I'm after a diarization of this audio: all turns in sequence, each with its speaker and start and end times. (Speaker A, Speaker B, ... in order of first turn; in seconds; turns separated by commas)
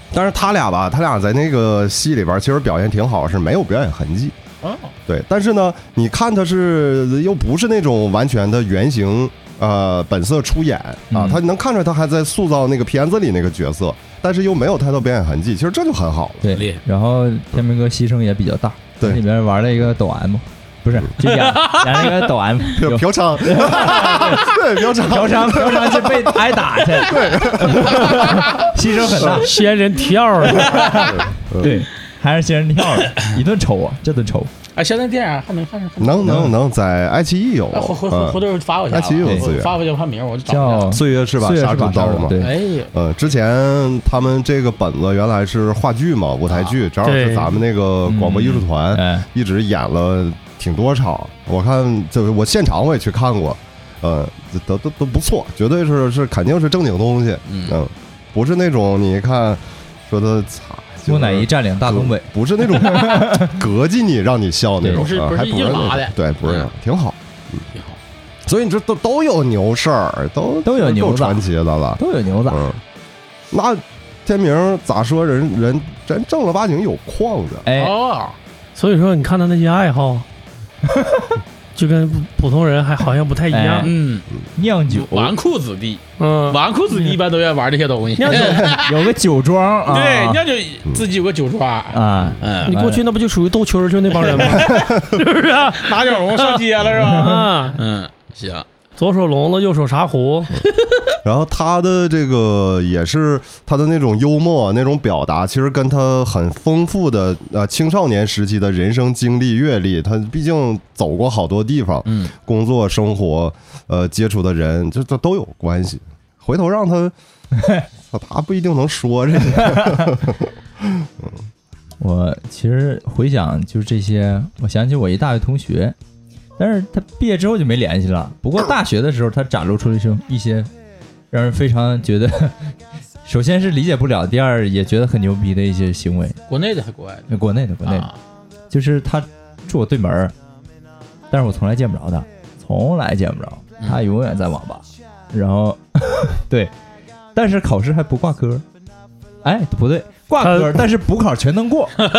Speaker A: 0.1-4.4, Speaker B: 4.6-4.9, Speaker A: 5.1-16.5, Speaker C: 11.1-11.4, Speaker C: 16.4-29.5, Speaker B: 16.5-16.8, Speaker B: 21.3-22.1, Speaker A: 22.8-28.5, Speaker A: 29.1-29.4, Speaker D: 29.3-30.9, Speaker C: 30.6-34.5, Speaker A: 31.2-31.8, Speaker B: 34.8-36.4, Speaker A: 36.0-39.7, Speaker C: 36.2-36.5, Speaker B: 37.7-41.0, Speaker C: 39.2-39.5, Speaker C: 40.5-42.5, Speaker A: 40.9-42.4, Speaker B: 42.4-42.9, Speaker A: 42.9-67.6, Speaker B: 46.5-46.8, Speaker D: 47.0-47.6, Speaker C: 48.1-49.3, Speaker B: 57.5-57.8, Speaker C: 61.1-63.6, Speaker B: 64.9-66.7, Speaker A: 68.5-72.8, Speaker C: 70.7-71.4, Speaker C: 72.0-72.7, Speaker A: 73.5-77.7, Speaker C: 77.7-78.0, Speaker B: 77.7-78.4, Speaker D: 78.8-80.3, Speaker C: 80.9-81.4, Speaker D: 81.8-83.9, Speaker C: 83.5-84.0, Speaker B: 83.8-84.3, Speaker C: 84.6-85.3, Speaker B: 84.9-89.1, Speaker D: 86.2-86.6, Speaker D: 88.2-88.7, Speaker C: 88.3-90.5, Speaker B: 89.9-92.7, Speaker C: 91.9-93.0, Speaker D: 92.7-97.8, Speaker B: 94.4-94.7, Speaker A: 94.6-95.1, Speaker B: 95.6-98.7, Speaker C: 97.0-97.5, Speaker D: 99.0-100.5, Speaker A: 101.2-117.1, Speaker B: 112.1-112.3, Speaker C: 117.6-117.9, Speaker A: 118.1-121.3, Speaker C: 119.6-120.0, Speaker C: 122.0-126.0, Speaker C: 126.6-130.7, Speaker C: 131.3-132.6, Speaker C: 133.2-136.4, Speaker B: 136.5-137.3, Speaker C: 137.3-138.1, Speaker B: 137.8-138.2, Speaker C: 138.7-140.3, Speaker C: 141.3-146.7, Speaker C: 147.4-148.6, Speaker C: 149.4-151.9, Speaker D: 150.4-150.8